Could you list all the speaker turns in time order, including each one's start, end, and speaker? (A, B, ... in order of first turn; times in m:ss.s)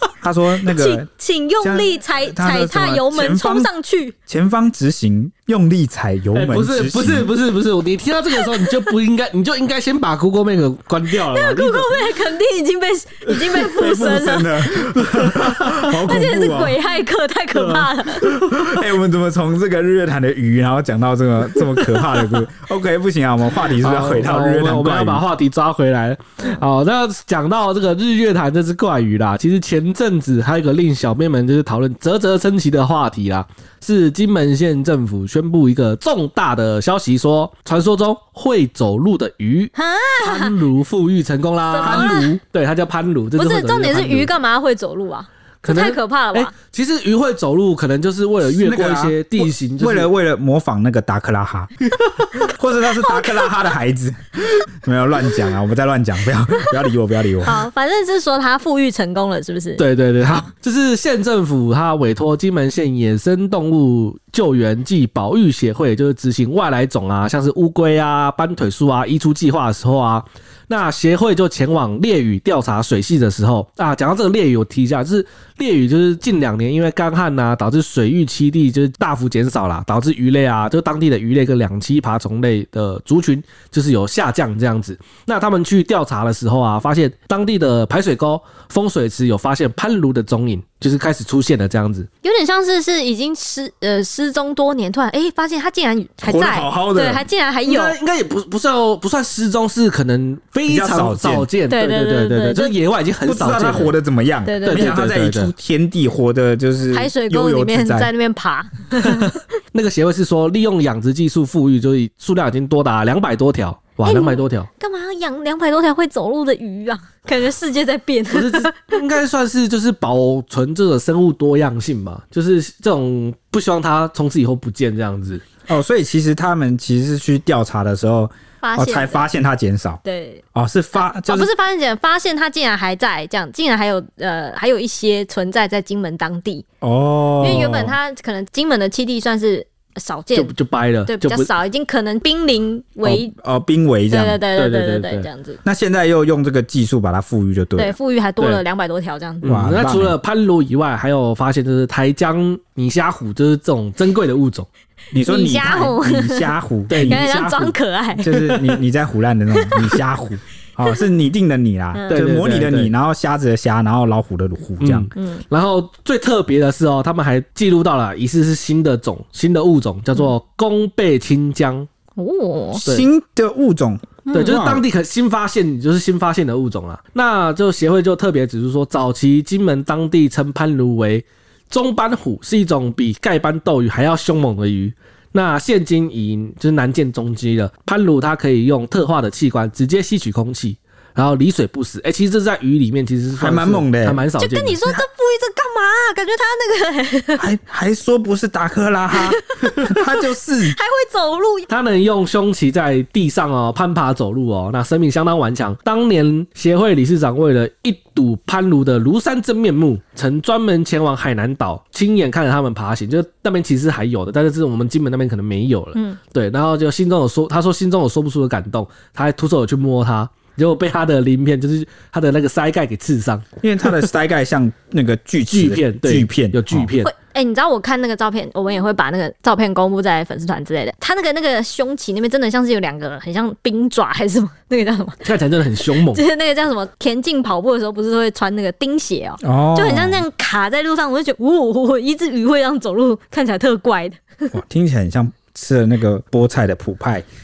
0:00.2-0:01.1 A
0:00.7-0:04.1 B
0:01.6-0:03.7 A
0:04.3-0:07.3 A
0:06.3-0:12.1 C
0:08.3-0:08.7 B
0:11.1-0:14.7 B
0:13.3-0:13.8 C
0:13.6-0:16.8 A
0:14.7-0:15.9 C
0:16.0-0:18.3 B
0:17.5-0:18.8 C
0:18.2-0:25.2 A
0:21.6-0:21.8 C
0:23.8-0:44.3 C
0:39.7-0:40.5 B
0:41.7-0:42.4 B
0:41.8-0:42.3 A
0:43.4-0:46.5 B
0:45.6-0:50.1 C
0:48.4-0:51.7 A
0:52.3-0:57.7 A
0:53.0-0:53.5 B
0:57.4-0:59.8 B
0:59.8-1:32.1 C
1:32.2-1:38.0 B
1:36.2-1:37.2 A
1:37.6-1:43.9 C
1:40.6-1:41.5 A
1:41.7-1:42.7 B
1:43.2-1:48.1 A
1:44.4-1:44.9 B
1:44.6-1:45.5 C
1:46.9-1:49.3 B
1:49.0-1:54.7 C
1:54.0-1:59.0 B
1:58.3-2:05.4 C
2:05.7-2:10.0 A
2:08.6-2:09.3 B
2:10.0-2:10.4 B
2:10.5-2:11.5 A
2:11.0-2:16.6 B
2:16.8-2:18.0 A
2:17.4-2:20.5 B
2:20.3-2:21.5 C
2:21.1-2:23.3 B
2:23.0-2:24.4 A
2:24.1-2:25.6 B
2:24.5-2:25.3 C
2:25.6-2:28.0 A
2:27.8-2:29.6 B
2:29.4-2:34.7 C
2:29.4-2:30.2 A
2:35.1-2:45.1 A
2:35.2-2:38.7 B
2:36.9-2:37.2 C
2:39.5-2:40.0 B
2:41.9-2:42.2 B
2:42.1-2:42.9 C
2:44.8-2:51.9 C
2:45.1-2:45.4 B
2:52.2-2:52.8 B
2:52.7-2:54.8 A
2:54.2-2:54.6 B
2:54.3-3:14.8 C
3:13.4-3:14.2 A
3:14.4-3:17.4 B
3:17.4-3:20.8 A
3:19.1-3:21.7 B
3:21.7-3:43.4 C
3:43.6-3:46.9 A
3:45.5-3:47.1 C
3:47.0-3:55.2 B
3:55.2-3:56.2 C
3:56.0-4:04.5 B
3:59.4-4:00.2 A
4:04.5-4:07.3 A